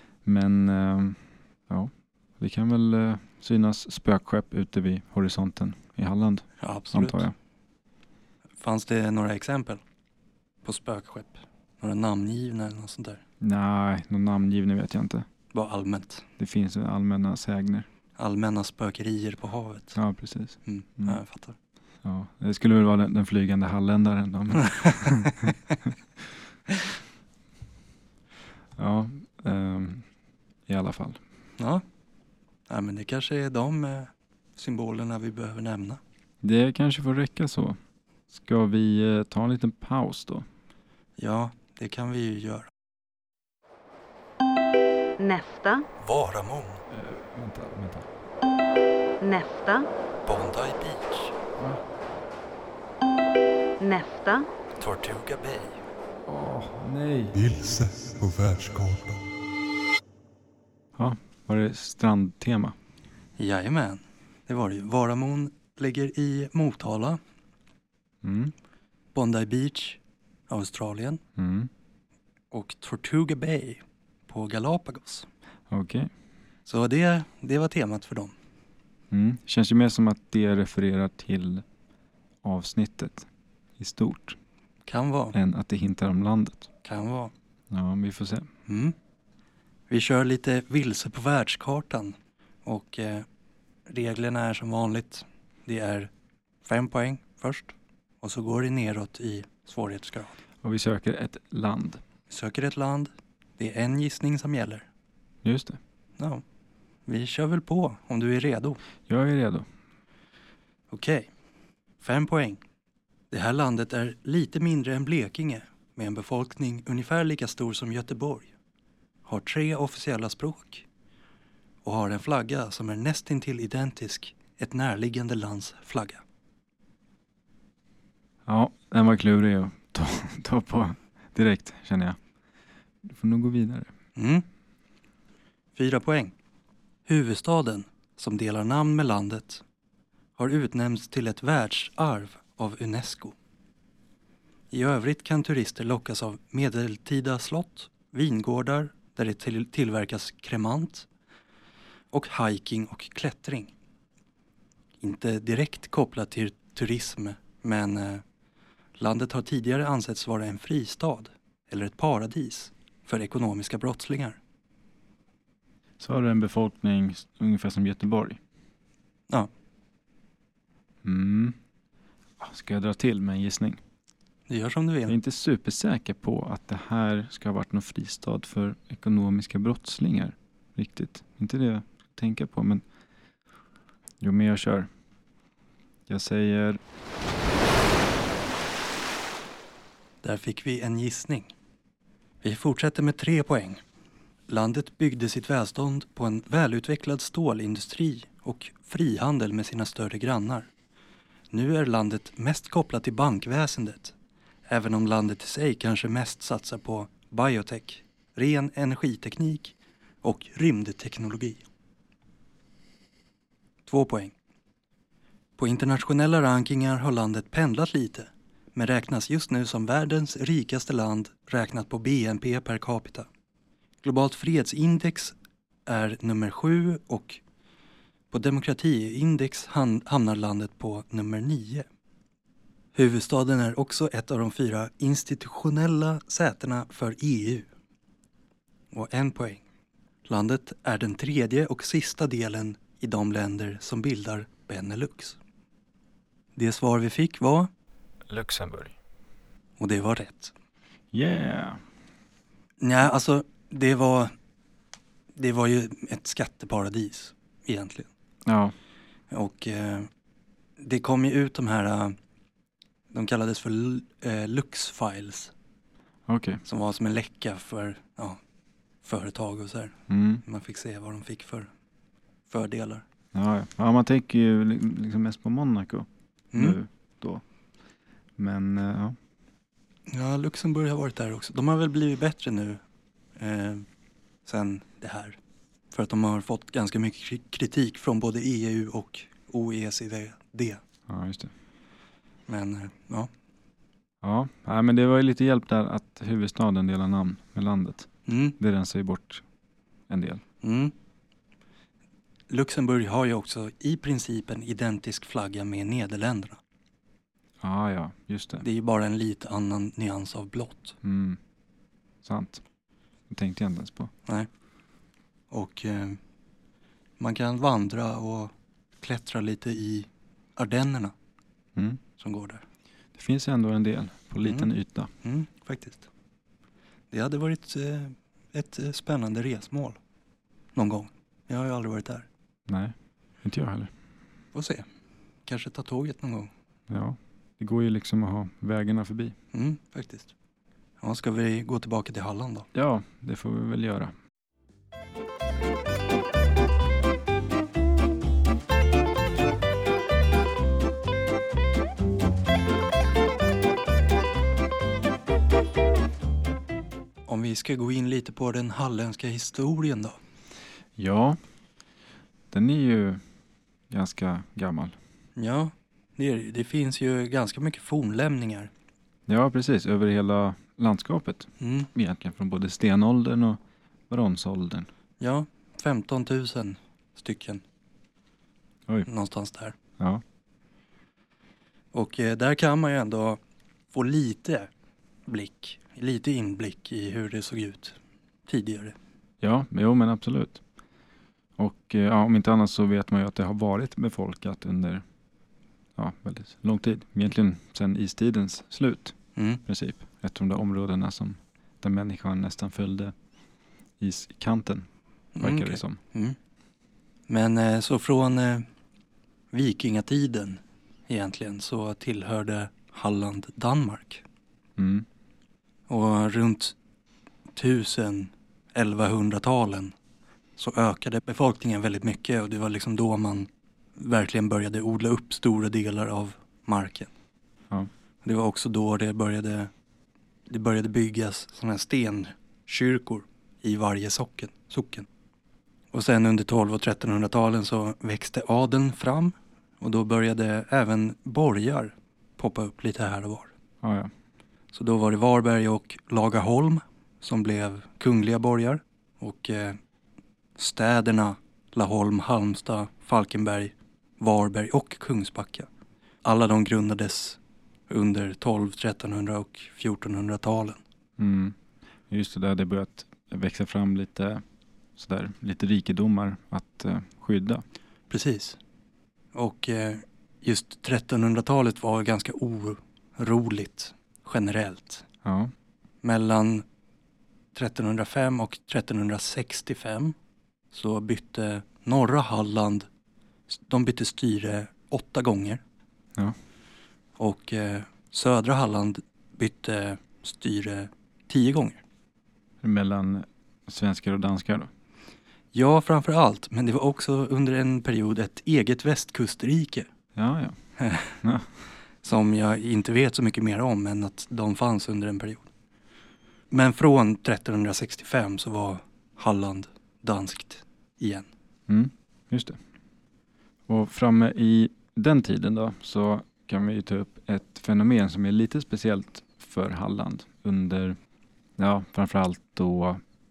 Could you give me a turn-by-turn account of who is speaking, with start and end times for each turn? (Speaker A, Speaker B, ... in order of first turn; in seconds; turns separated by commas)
Speaker A: 0.2-7.3, Speaker B: 6.6-7.2, Speaker B: 8.6-9.8, Speaker B: 10.6-13.2, Speaker A: 13.4-15.3, Speaker B: 15.5-16.2, Speaker A: 16.4-17.9, Speaker B: 18.2-20.0, Speaker A: 19.9-21.2, Speaker B: 20.6-21.6, Speaker A: 22.0-25.9, Speaker B: 24.8-25.1, Speaker A: 28.8-30.1, Speaker A: 30.7-31.2, Speaker B: 31.6-31.8, Speaker B: 32.7-36.0, Speaker A: 36.4-37.8, Speaker A: 38.3-40.5, Speaker B: 41.2-42.7, Speaker C: 45.2-45.9, Speaker B: 46.0-46.8, Speaker A: 46.9-48.1, Speaker C: 49.2-49.9, Speaker B: 50.2-51.3, Speaker C: 53.8-54.5, Speaker B: 54.8-55.8, Speaker A: 56.2-57.4, Speaker D: 57.3-59.3, Speaker A: 61.0-62.7, Speaker B: 63.4-67.2, Speaker A: 68.2-68.5, Speaker B: 69.1-71.2, Speaker A: 71.3-71.7, Speaker B: 72.5-75.3, Speaker A: 75.7-76.1, Speaker B: 76.7-78.3, Speaker A: 79.1-81.6, Speaker A: 82.4-83.3, Speaker A: 83.8-84.4, Speaker B: 84.9-85.3, Speaker A: 85.3-86.7, Speaker B: 86.8-87.3, Speaker A: 87.7-88.5, Speaker B: 88.7-88.9, Speaker B: 89.9-93.3, Speaker B: 93.9-96.1, Speaker B: 96.6-100.4, Speaker A: 100.6-102.0, Speaker B: 102.3-104.8, Speaker A: 105.4-105.8, Speaker B: 106.2-106.4, Speaker B: 107.0-108.8, Speaker A: 109.1-109.7, Speaker B: 110.9-111.3, Speaker B: 112.0-112.6, Speaker B: 113.3-118.5, Speaker B: 119.2-120.8, Speaker B: 121.8-126.2, Speaker A: 128.4-132.2, Speaker A: 133.0-133.9, Speaker B: 134.2-134.4, Speaker B: 135.8-136.3, Speaker B: 137.1-139.6, Speaker B: 140.4-143.3, Speaker B: 144.7-151.1, Speaker B: 152.1-153.7, Speaker B: 155.0-158.2, Speaker B: 159.0-164.4, Speaker A: 166.0-168.4, Speaker A: 171.0-171.6, Speaker A: 172.4-173.8, Speaker B: 174.5-175.1, Speaker A: 175.1-182.8, Speaker A: 184.2-184.9, Speaker A: 186.1-186.8, Speaker B: 190.2-191.5, Speaker B: 192.4-193.8, Speaker B: 194.5-200.7, Speaker B: 201.5-204.1, Speaker B: 204.7-211.6, Speaker B: 213.8-214.3, Speaker B: 215.6-223.3, Speaker B: 224.0-225.3, Speaker B: 225.9-227.4, Speaker B: 228.3-231.8, Speaker B: 232.9-237.7, Speaker B: 238.9-239.6, Speaker B: 240.3-245.4, Speaker B: 246.6-247.7, Speaker A: 248.3-248.9, Speaker B: 249.8-250.5, Speaker A: 251.1-251.8, Speaker B: 252.8-254.3, Speaker B: 255.3-258.1, Speaker A: 258.4-258.7, Speaker B: 259.3-260.1, Speaker B: 260.8-262.1, Speaker B: 263.1-265.5, Speaker A: 266.3-266.6, Speaker B: 266.6-268.4, Speaker B: 269.0-271.7, Speaker A: 270.1-270.4, Speaker B: 272.5-273.0, Speaker A: 273.3-277.4, Speaker B: 276.5-276.8, Speaker A: 278.4-279.1, Speaker B: 280.1-282.8, Speaker B: 283.4-283.9, Speaker B: 284.4-285.4, Speaker B: 285.9-290.8, Speaker A: 291.1-291.5, Speaker B: 292.5-293.3, Speaker A: 294.2-299.4, Speaker B: 298.3-298.6, Speaker A: 300.1-300.4, Speaker B: 300.6-300.9, Speaker B: 302.5-306.6, Speaker A: 307.6-308.6, Speaker B: 308.6-310.9, Speaker A: 311.0-311.4, Speaker A: 312.2-312.6, Speaker A: 313.3-314.1, Speaker B: 315.5-316.2, Speaker B: 317.2-321.1, Speaker B: 322.2-322.6, Speaker A: 323.1-325.1, Speaker B: 324.4-324.7, Speaker B: 325.2-326.1, Speaker B: 327.1-330.0, Speaker B: 330.7-332.3, Speaker A: 332.7-333.9, Speaker B: 334.5-334.9, Speaker B: 335.4-336.5, Speaker A: 336.9-339.3, Speaker B: 339.5-340.3, Speaker B: 341.0-342.7, Speaker A: 342.7-344.1, Speaker B: 357.3-360.1, Speaker A: 361.0-361.4, Speaker A: 362.5-363.2, Speaker A: 363.9-364.9, Speaker B: 365.4-368.7, Speaker A: 369.3-374.9, Speaker B: 371.6-371.9, Speaker B: 375.2-377.6, Speaker B: 379.1-379.8, Speaker B: 381.9-383.4, Speaker B: 383.9-384.7, Speaker B: 385.3-388.9, Speaker A: 389.4-390.6, Speaker A: 391.6-395.0, Speaker A: 395.9-403.1, Speaker B: 399.4-399.6, Speaker A: 404.0-404.9, Speaker B: 405.4-406.4, Speaker A: 405.4-406.0, Speaker B: 407.3-408.7, Speaker B: 409.5-414.2, Speaker A: 414.8-415.1, Speaker B: 415.9-416.7, Speaker B: 417.6-419.9, Speaker B: 420.6-427.1, Speaker B: 428.2-429.7, Speaker B: 430.5-435.1, Speaker B: 435.9-443.5, Speaker A: 443.8-444.1, Speaker B: 444.7-449.8, Speaker B: 450.6-455.7, Speaker B: 456.2-457.4, Speaker B: 457.9-460.8, Speaker A: 461.2-461.6, Speaker A: 462.1-464.4, Speaker A: 465.0-467.6, Speaker B: 468.1-468.6, Speaker B: 469.3-475.0, Speaker A: 475.2-475.5, Speaker B: 476.0-476.6, Speaker B: 477.5-480.1, Speaker B: 480.7-482.9, Speaker B: 483.5-485.6, Speaker B: 487.2-491.8, Speaker A: 492.6-494.7, Speaker B: 495.5-499.9, Speaker A: 500.1-500.6, Speaker B: 500.8-501.2, Speaker A: 501.1-501.4, Speaker B: 502.0-505.5, Speaker B: 506.5-511.3, Speaker A: 511.7-512.6, Speaker A: 513.7-521.0, Speaker A: 521.6-523.0